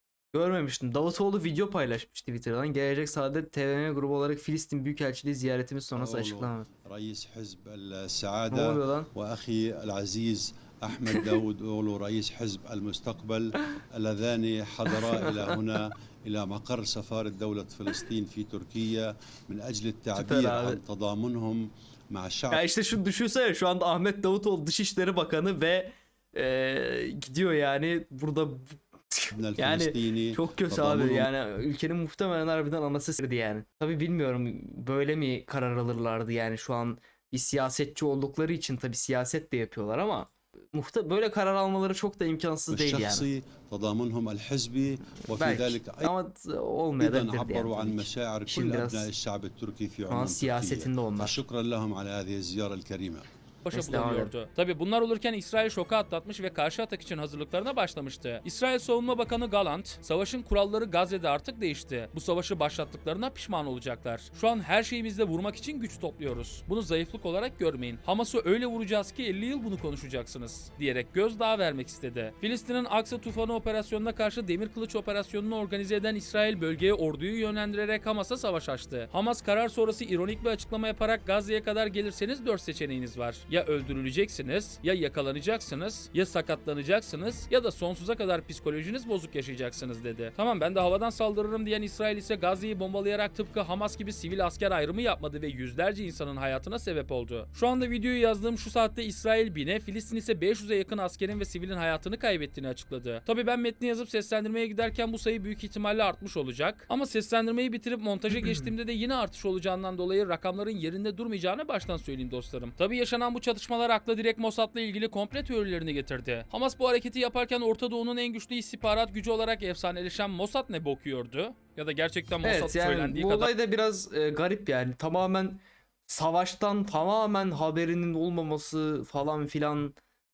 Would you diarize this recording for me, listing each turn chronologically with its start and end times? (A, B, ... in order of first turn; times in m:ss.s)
0:00.3-0:06.7 A
0:05.9-0:22.6 B
0:08.5-0:09.1 A
0:11.1-0:11.4 A
0:14.9-0:15.6 A
0:20.1-0:20.8 A
0:22.5-0:43.3 A
0:29.3-0:31.3 B
0:42.7-0:46.1 B
0:45.3-0:49.1 A
0:47.0-0:53.3 B
0:50.1-0:51.4 A
0:53.6-2:03.5 C
0:53.7-0:54.3 A
1:48.3-1:48.7 A
2:02.4-2:10.0 A